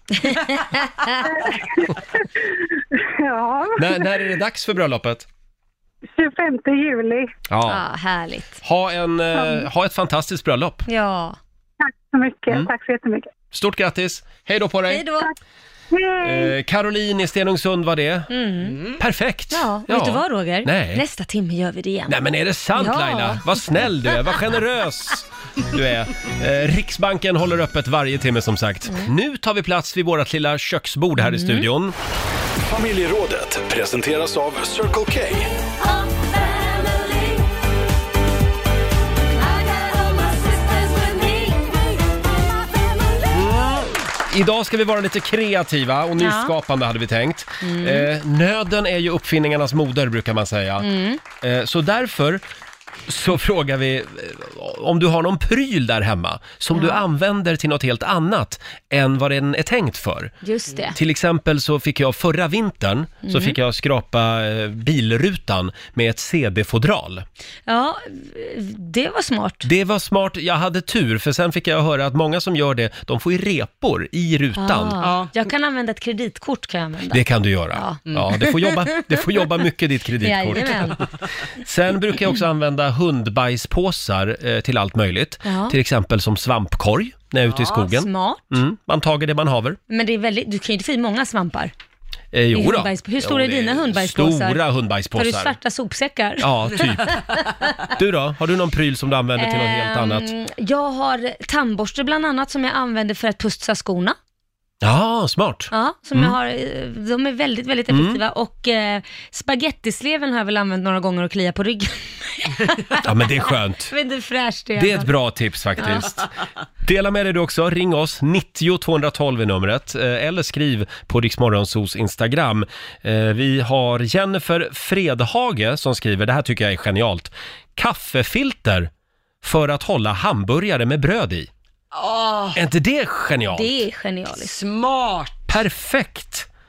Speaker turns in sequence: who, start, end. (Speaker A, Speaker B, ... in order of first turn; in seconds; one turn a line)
Speaker A: 0.2-1.3
Speaker B: 1.4-4.1
Speaker C: 3.8-5.2
Speaker B: 6.1-7.3
Speaker C: 7.5-7.8
Speaker A: 7.7-8.6
Speaker C: 8.6-10.8
Speaker B: 9.3-9.7
Speaker A: 10.8-11.4
Speaker B: 11.8-13.3
Speaker C: 13.5-15.0
Speaker A: 14.9-15.3
Speaker B: 15.9-16.5
Speaker C: 16.2-18.3
Speaker A: 18.3-18.8
Speaker D: 18.6-19.0
Speaker C: 19.0-21.0
Speaker A: 19.5-22.2
Speaker C: 22.1-31.9
Speaker A: 22.7-23.6
Speaker A: 31.2-31.6
Speaker E: 32.7-35.5
Speaker A: 36.0-37.2
Speaker A: 39.6-41.7
Speaker C: 43.3-50.9
Speaker A: 46.2-46.5
Speaker A: 47.6-48.1
Speaker A: 50.8-51.2
Speaker C: 51.4-52.4
Speaker C: 53.1-60.3
Speaker A: 56.7-57.0
Speaker A: 60.4-61.0
Speaker C: 60.9-67.2
Speaker A: 63.2-63.6
Speaker A: 67.7-69.7
Speaker C: 69.6-75.0
Speaker A: 74.6-79.2
Speaker D: 75.0-75.3
Speaker C: 77.1-81.1
Speaker A: 80.2-81.0
Speaker C: 81.6-89.8
Speaker A: 85.4-85.8
Speaker A: 87.6-88.4
Speaker A: 89.9-91.7
Speaker C: 92.3-95.5
Speaker A: 92.5-94.6
Speaker A: 95.1-97.5
Speaker C: 96.4-97.2
Speaker C: 97.8-100.3
Speaker A: 99.4-104.2
Speaker C: 104.8-106.3
Speaker A: 105.7-113.1
Speaker C: 107.9-108.2
Speaker C: 113.0-113.9
Speaker A: 113.9-115.1
Speaker C: 114.8-116.3
Speaker C: 116.8-128.9
Speaker C: 129.4-131.5
Speaker D: 131.9-132.6
Speaker C: 132.5-133.7
Speaker A: 133.5-134.6
Speaker D: 134.3-135.5
Speaker C: 135.5-136.5